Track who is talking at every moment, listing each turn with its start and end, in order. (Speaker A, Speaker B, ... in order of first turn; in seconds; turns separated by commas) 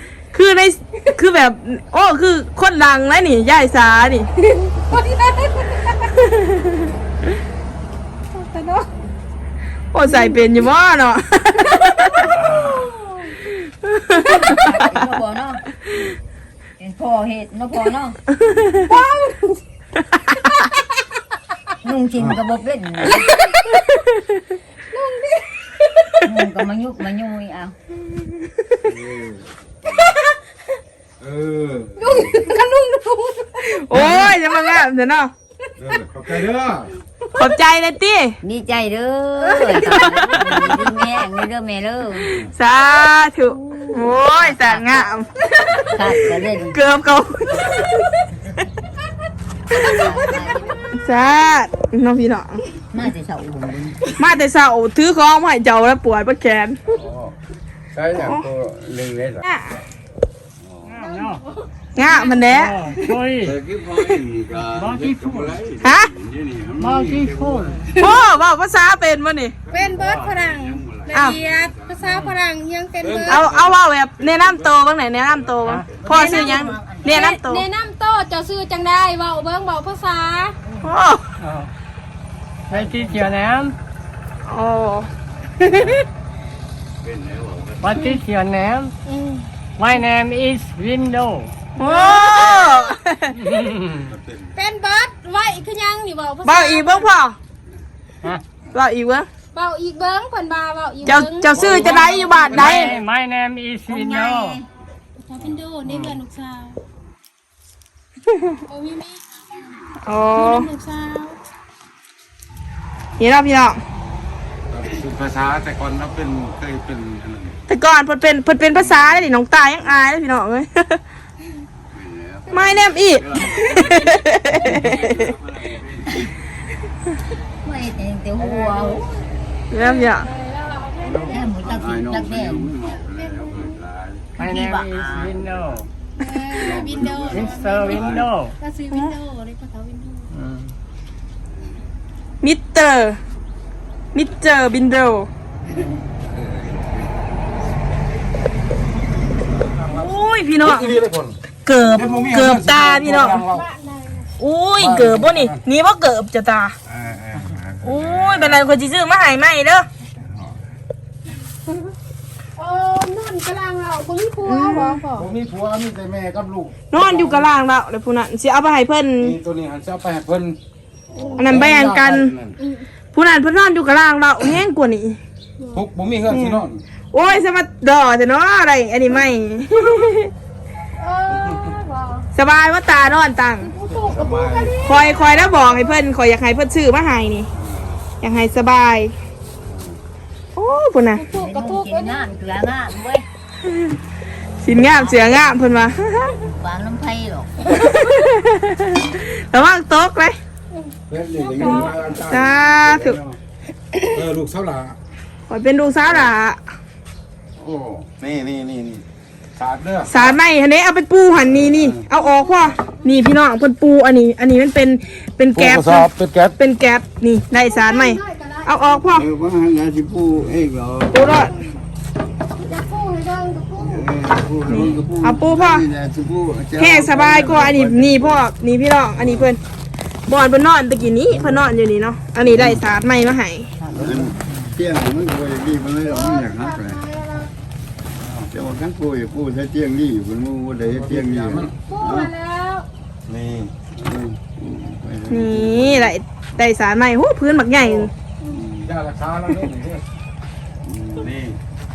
Speaker A: 0.3-4.3, Speaker B: 4.4-6.1, Speaker A: 6.0-6.9, Speaker A: 8.3-8.9, Speaker A: 9.9-12.3, Speaker B: 10.0-10.5, Speaker B: 12.5-13.4, Speaker A: 13.5-14.8, Speaker C: 14.2-15.7, Speaker C: 16.8-18.2, Speaker A: 18.5-18.9, Speaker B: 18.8-19.6, Speaker C: 21.8-23.4, Speaker D: 22.2-22.4, Speaker B: 23.3-23.8, Speaker A: 23.9-24.2, Speaker B: 24.9-26.3, Speaker C: 26.2-27.8, Speaker D: 28.9-29.4, Speaker D: 31.2-32.4, Speaker B: 32.0-34.3, Speaker A: 33.7-35.3, Speaker D: 35.8-36.9, Speaker A: 37.3-38.4, Speaker C: 38.4-42.3, Speaker B: 39.4-40.0, Speaker A: 39.8-40.7, Speaker A: 42.2-48.3, Speaker B: 43.6-44.0, Speaker C: 43.9-46.8, Speaker C: 49.7-50.9, Speaker B: 49.8-50.5, Speaker A: 50.9-52.6, Speaker C: 52.9-54.2, Speaker A: 54.2-56.8, Speaker E: 56.9-57.4, Speaker E: 57.9-59.4, Speaker A: 58.1-58.5, Speaker A: 59.4-59.8, Speaker E: 60.6-61.0, Speaker F: 60.9-61.4, Speaker B: 60.9-63.2, Speaker A: 62.0-62.8, Speaker F: 62.5-63.5, Speaker E: 63.4-67.9, Speaker F: 64.7-65.6, Speaker A: 65.8-66.1, Speaker F: 66.8-67.8, Speaker B: 67.9-68.2, Speaker A: 67.9-69.5, Speaker E: 69.7-72.3, Speaker B: 69.7-73.5, Speaker A: 71.1-71.4, Speaker D: 73.0-74.7, Speaker A: 73.3-77.6, Speaker C: 75.9-77.3, Speaker B: 76.2-80.6, Speaker C: 80.7-80.9, Speaker A: 80.8-81.2, Speaker F: 81.4-81.7, Speaker F: 82.7-83.8, Speaker C: 82.8-83.3, Speaker A: 84.5-85.1, Speaker A: 85.6-86.0, Speaker E: 87.0-88.0, Speaker F: 87.8-88.9, Speaker B: 89.0-89.5, Speaker F: 89.8-91.5, Speaker B: 91.8-92.9, Speaker A: 91.8-93.4, Speaker F: 93.5-94.0, Speaker D: 94.0-94.5, Speaker B: 94.5-97.1, Speaker A: 96.5-97.4, Speaker A: 98.7-99.3, Speaker B: 99.5-103.0, Speaker A: 101.0-102.9, Speaker D: 101.5-102.8, Speaker F: 102.6-104.6, Speaker C: 103.9-104.7, Speaker B: 105.2-106.8, Speaker A: 108.3-108.6, Speaker B: 108.7-109.4, Speaker A: 110.0-110.7, Speaker B: 110.3-111.4, Speaker A: 113.2-113.8, Speaker D: 114.7-117.6, Speaker A: 117.7-121.0, Speaker E: 121.9-126.3, Speaker A: 122.5-125.3, Speaker C: 127.6-129.1, Speaker B: 128.4-129.1, Speaker A: 129.7-130.3, Speaker B: 129.7-131.4, Speaker E: 131.0-134.3, Speaker C: 131.1-132.7, Speaker B: 132.9-133.8, Speaker C: 134.4-135.5, Speaker F: 134.4-135.9, Speaker B: 136.2-140.3, Speaker E: 136.5-138.3, Speaker F: 137.3-138.5, Speaker F: 140.4-140.7, Speaker A: 142.4-143.2, Speaker A: 144.1-145.3, Speaker E: 145.7-147.3, Speaker D: 149.6-151.4, Speaker A: 149.9-150.9, Speaker A: 151.7-153.4, Speaker D: 151.9-153.7, Speaker B: 153.4-154.3, Speaker A: 154.4-156.8, Speaker D: 154.8-155.6, Speaker E: 157.1-158.5, Speaker D: 157.1-158.1, Speaker A: 157.8-159.9, Speaker B: 162.6-165.3, Speaker A: 164.4-165.0, Speaker D: 165.1-167.5, Speaker A: 166.9-169.4, Speaker D: 169.2-170.6, Speaker D: 171.1-172.6, Speaker A: 171.4-172.3, Speaker B: 172.6-172.8, Speaker A: 173.1-175.2, Speaker D: 175.7-176.8, Speaker A: 176.3-180.3, Speaker B: 181.0-182.3, Speaker A: 182.3-183.7, Speaker B: 183.6-186.1, Speaker D: 184.0-184.8, Speaker A: 184.8-187.5, Speaker E: 187.6-188.0, Speaker A: 188.2-189.1, Speaker E: 189.6-190.0, Speaker A: 190.6-191.2, Speaker B: 191.2-192.4, Speaker C: 191.3-193.3, Speaker A: 193.7-193.9, Speaker A: 194.6-196.4, Speaker C: 194.7-195.5, Speaker C: 196.3-197.7, Speaker A: 197.7-200.4, Speaker B: 200.7-201.9, Speaker D: 201.1-202.6, Speaker E: 201.4-203.4, Speaker A: 202.2-203.2, Speaker D: 204.1-205.0, Speaker A: 205.5-206.6, Speaker E: 207.6-208.1, Speaker D: 208.2-209.0, Speaker D: 209.6-210.3, Speaker A: 210.1-219.3, Speaker E: 211.4-212.0, Speaker B: 212.1-213.2, Speaker D: 215.6-216.6, Speaker B: 217.5-219.1, Speaker E: 219.1-221.6, Speaker A: 221.1-221.5, Speaker B: 222.6-224.1, Speaker E: 223.8-228.4, Speaker C: 224.7-225.0, Speaker A: 224.7-225.8, Speaker A: 226.8-229.6, Speaker E: 229.2-229.5, Speaker A: 230.3-233.7, Speaker E: 232.5-232.8, Speaker C: 233.8-234.8, Speaker D: 233.9-234.3, Speaker E: 234.0-237.0, Speaker B: 236.1-237.5, Speaker D: 238.2-238.5, Speaker E: 238.5-242.3, Speaker D: 240.8-241.7, Speaker B: 241.9-242.9, Speaker D: 243.3-243.7, Speaker E: 243.9-246.1, Speaker A: 245.3-248.1, Speaker B: 247.9-248.7, Speaker E: 248.5-248.9, Speaker D: 248.8-250.0, Speaker E: 250.8-251.3, Speaker D: 251.2-251.6